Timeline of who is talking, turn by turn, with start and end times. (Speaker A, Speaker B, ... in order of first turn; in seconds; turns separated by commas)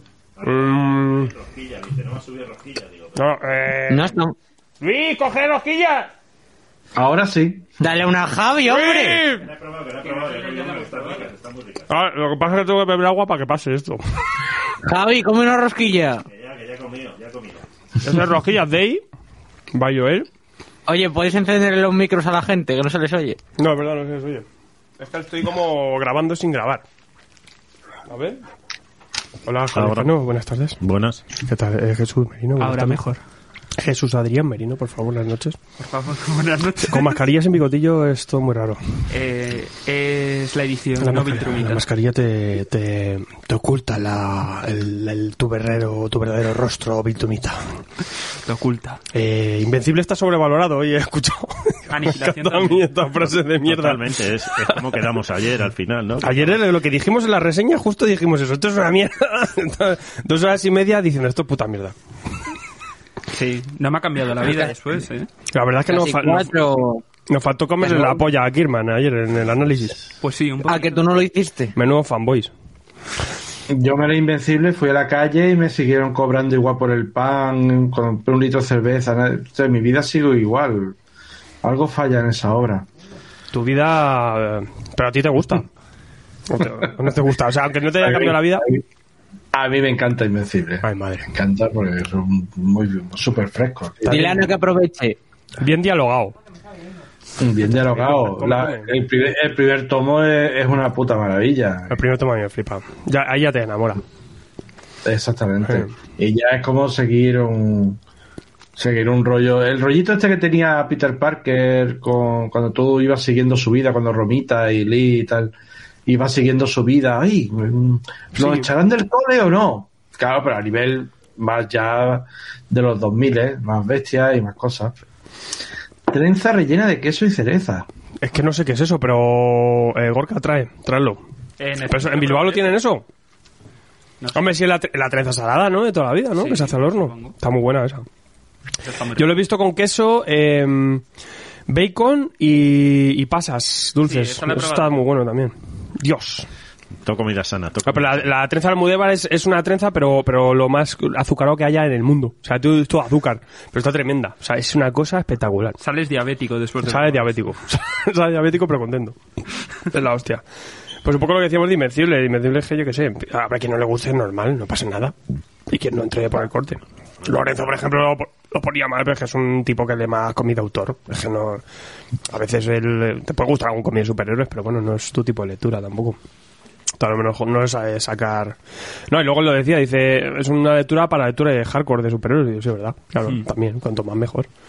Speaker A: 0.4-3.2, Speaker B: 0.4-1.3, Speaker B: 3.1-4.2, Speaker C: 3.9-4.3, Speaker B: 4.8-6.1, Speaker D: 7.0-7.7, Speaker C: 7.8-9.3, Speaker B: 8.6-9.5, Speaker A: 9.3-11.9, Speaker B: 11.9-14.4, Speaker C: 14.8-16.2, Speaker A: 16.3-17.7, Speaker B: 18.0-19.0, Speaker B: 19.7-20.3, Speaker C: 20.9-23.4, Speaker B: 23.6-24.5, Speaker B: 25.0-26.8, Speaker B: 28.1-28.4, Speaker B: 29.4-33.0, Speaker A: 29.7-30.2, Speaker A: 30.8-31.2, Speaker E: 32.6-33.2, Speaker B: 33.8-35.6, Speaker E: 35.8-37.1, Speaker B: 36.8-38.8, Speaker E: 39.1-41.9, Speaker B: 41.0-47.6, Speaker E: 48.5-49.0, Speaker B: 49.1-55.2, Speaker E: 51.9-52.9, Speaker A: 53.6-56.6, Speaker B: 56.2-62.0, Speaker E: 63.3-65.3, Speaker C: 64.4-64.8, Speaker B: 65.5-66.5, Speaker C: 65.9-67.0, Speaker B: 67.2-70.0, Speaker C: 67.8-68.2, Speaker E: 70.2-71.1, Speaker C: 70.7-71.7, Speaker B: 71.7-72.5, Speaker D: 73.7-81.0, Speaker D: 81.6-82.9, Speaker B: 83.5-85.7, Speaker B: 86.5-88.7, Speaker D: 88.0-88.8, Speaker D: 89.5-94.5, Speaker B: 90.8-91.3, Speaker C: 94.1-95.2, Speaker B: 95.6-96.3, Speaker D: 97.4-102.0, Speaker B: 97.7-98.9, Speaker B: 101.9-104.0, Speaker D: 105.0-108.0, Speaker B: 105.6-106.0, Speaker D: 108.8-115.5, Speaker D: 116.1-124.9, Speaker B: 118.3-118.7, Speaker D: 126.1-127.9, Speaker B: 128.2-131.2, Speaker E: 131.6-132.8, Speaker B: 131.8-133.1, Speaker E: 134.2-134.5, Speaker B: 134.3-138.1, Speaker E: 136.4-137.3, Speaker E: 138.8-139.3, Speaker B: 139.2-141.0, Speaker B: 141.7-146.5, Speaker E: 144.0-145.0, Speaker A: 147.0-148.3, Speaker B: 147.9-155.8, Speaker E: 155.8-157.2, Speaker B: 156.8-159.2, Speaker B: 159.8-160.4, Speaker B: 161.0-165.2, Speaker B: 165.7-171.6, Speaker A: 167.3-167.6, Speaker B: 172.3-176.2, Speaker B: 177.0-178.6, Speaker B: 179.1-184.5